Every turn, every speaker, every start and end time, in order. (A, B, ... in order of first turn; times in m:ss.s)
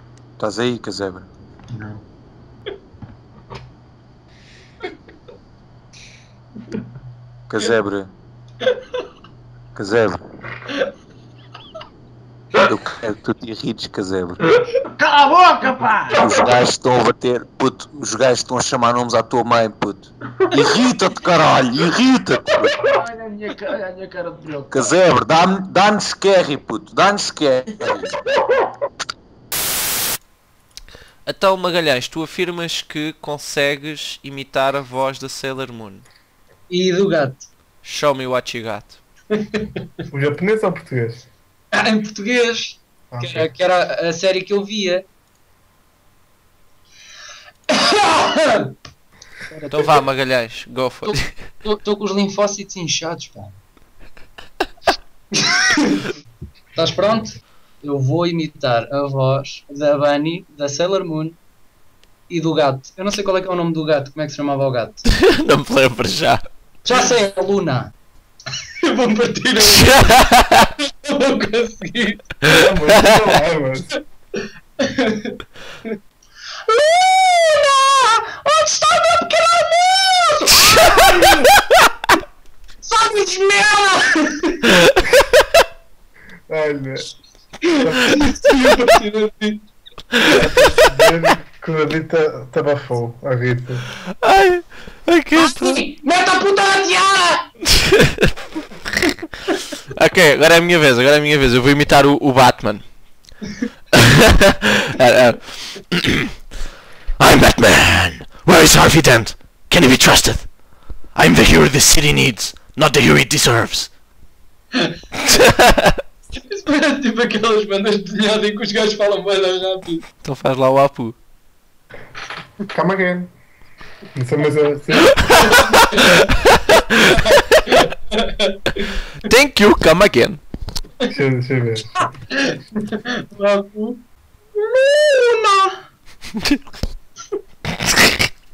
0:00.4-0:01.3 A
0:01.8-0:02.0 B
0:07.5-0:08.1 A
0:09.8-0:10.2 A
0:12.6-0:14.4 A
0:15.0-0:16.1 B
0:16.2-0:22.8 A
0:23.0-0:24.9 B
0:24.7-0:28.2 A
0:31.3-0:36.0 C
0:36.7-0:37.5 D
0:37.8-0:39.0 C
0:39.3-0:39.8 D
0:40.1-0:41.2 E
0:41.7-0:45.1 D
0:43.1-0:43.5 E
0:47.7-0:48.7 D
0:49.5-0:50.0 D
0:49.7-0:51.4 C
0:51.0-0:53.5 D
0:55.4-0:55.8 D
0:56.8-1:01.4 D
1:02.3-1:05.0 D
1:05.1-1:06.4 C
1:06.8-1:07.9 D
1:08.8-1:10.3 D
1:09.7-1:10.6 C
1:10.9-1:12.2 D
1:12.5-1:13.9 E
1:12.8-1:13.2 C
1:14.8-1:15.3 D
1:16.7-1:21.3 D
1:20.7-1:21.4 C
1:22.8-1:24.7 D
1:26.5-1:27.0 E
1:27.8-1:29.6 D
1:30.4-1:33.8 E
1:34.2-1:35.8 C
1:35.4-1:37.4 D
1:40.0-1:42.9 C
1:45.0-1:46.2 C
1:47.2-1:50.6 C
1:51.1-1:53.9 C
1:55.3-1:55.9 C
1:56.4-2:00.0 D
2:00.2-2:01.2 C
2:02.7-2:03.3 E
2:04.2-2:05.1 E
2:05.4-2:06.3 D
2:07.7-2:08.9 D
2:09.2-2:10.4 C
2:11.1-2:11.9 E
2:12.4-2:14.0 D
2:14.6-2:15.8 D